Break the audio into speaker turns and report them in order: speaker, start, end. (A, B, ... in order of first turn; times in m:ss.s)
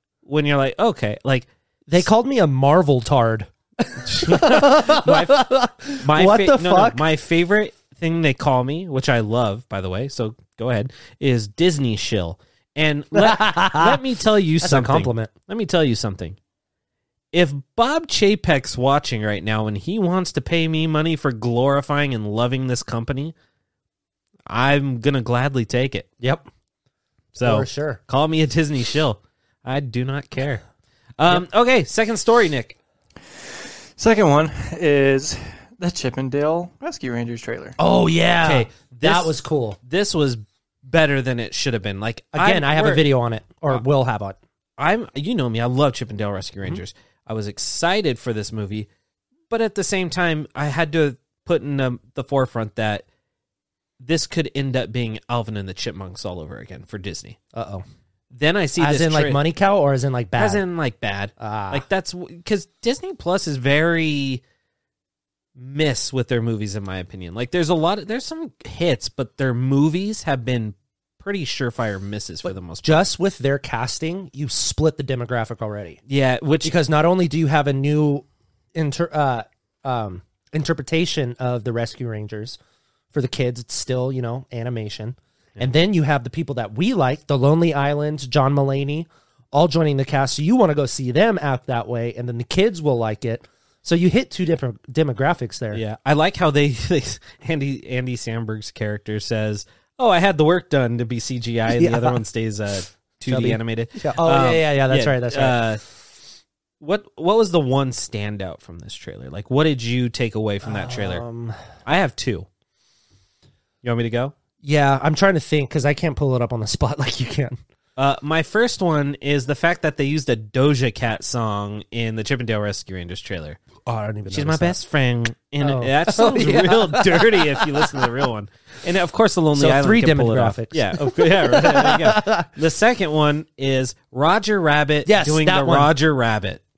0:00.2-0:01.5 A
0:01.9-0:07.0 B
0:04.1-0:05.4 A
0:06.0-0:16.4 A
0:13.1-0:14.0 B
0:14.6-0:15.3 B
0:17.3-0:23.3 A
0:24.5-0:26.1 A
0:26.2-0:26.5 B
0:27.3-0:30.6 A
0:27.4-0:28.0 B
0:31.2-0:32.8 A
0:33.5-0:37.8 C
0:37.8-0:39.8 B
0:38.4-0:43.0 A
0:42.4-0:44.4 B
0:44.8-0:48.9 A
0:49.5-0:53.0 A
0:54.0-0:57.4 A
0:57.5-0:57.8 B
0:58.3-0:59.4 A
0:58.8-1:00.6 B
1:00.4-1:04.4 A
1:01.4-1:01.8 B
1:05.6-1:13.0 A
1:12.5-1:16.0 B
1:16.1-1:16.7 A
1:16.6-1:22.6 B
1:23.1-1:35.8 B
1:35.7-1:45.8 A
1:41.7-1:42.2 B
1:43.3-1:45.6 B
1:46.8-1:51.2 A
1:50.6-1:51.6 B
1:51.8-1:52.5 A
1:53.8-1:54.3 A
1:54.6-1:57.6 B
1:58.0-2:03.6 A
2:03.9-2:04.8 B
2:04.3-2:16.6 A
2:05.6-2:08.1 B
2:09.6-2:12.5 B
2:15.1-2:15.9 B